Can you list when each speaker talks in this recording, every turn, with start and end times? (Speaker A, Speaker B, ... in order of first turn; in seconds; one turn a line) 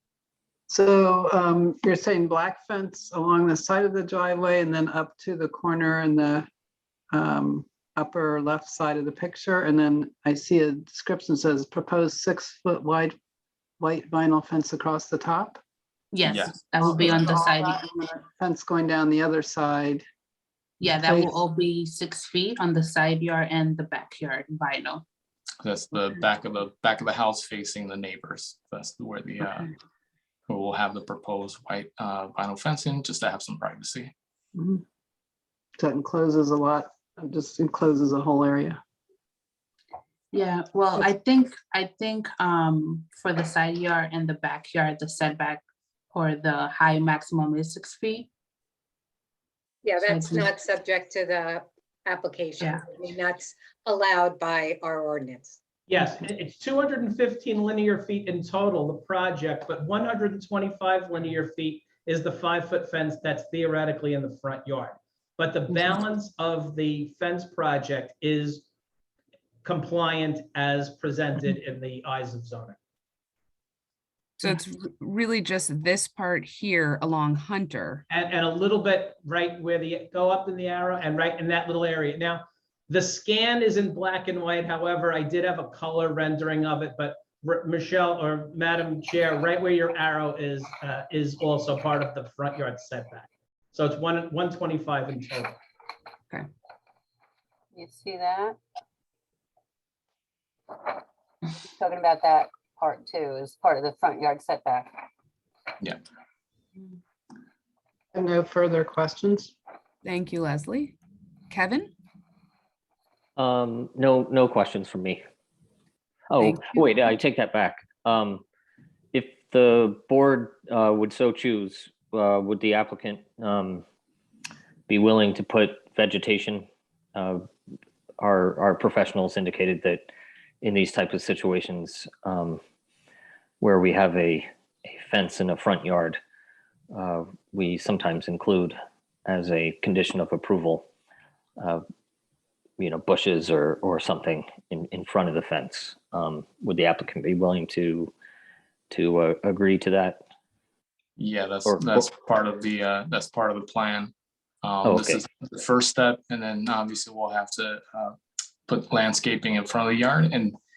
Speaker A: 0.7-6.5
Speaker A: 7.1-13.2
Speaker A: 13.8-15.6
Speaker B: 16.1-17.8
Speaker C: 16.2-16.7
Speaker A: 16.8-20.0
Speaker B: 20.8-25.0
Speaker A: 20.9-21.4
Speaker C: 25.6-29.7
Speaker C: 30.5-34.1
Speaker A: 34.5-34.8
Speaker A: 35.8-38.8
Speaker B: 40.3-48.3
Speaker D: 49.8-55.6
Speaker B: 50.0-50.5
Speaker E: 55.9-68.6
Speaker E: 69.6-72.8
Speaker F: 74.4-78.0
Speaker E: 78.1-95.5
Speaker G: 97.7-98.6
Speaker G: 101.8-105.0
Speaker A: 108.1-109.5
Speaker F: 110.0-111.0
Speaker F: 111.5-111.9
Speaker H: 113.4-115.2
Speaker H: 116.3-118.4
Speaker F: 116.4-116.8
Speaker H: 119.1-123.8
Speaker H: 124.9-127.5
Speaker H: 128.2-130.1
Speaker H: 130.6-132.6
Speaker H: 133.6-136.2
Speaker H: 136.9-140.9
Speaker H: 142.8-148.1
Speaker H: 148.9-150.2
Speaker C: 151.2-154.1
Speaker H: 151.7-152.1
Speaker C: 154.6-158.2
Speaker H: 154.8-155.2
Speaker C: 158.7-160.6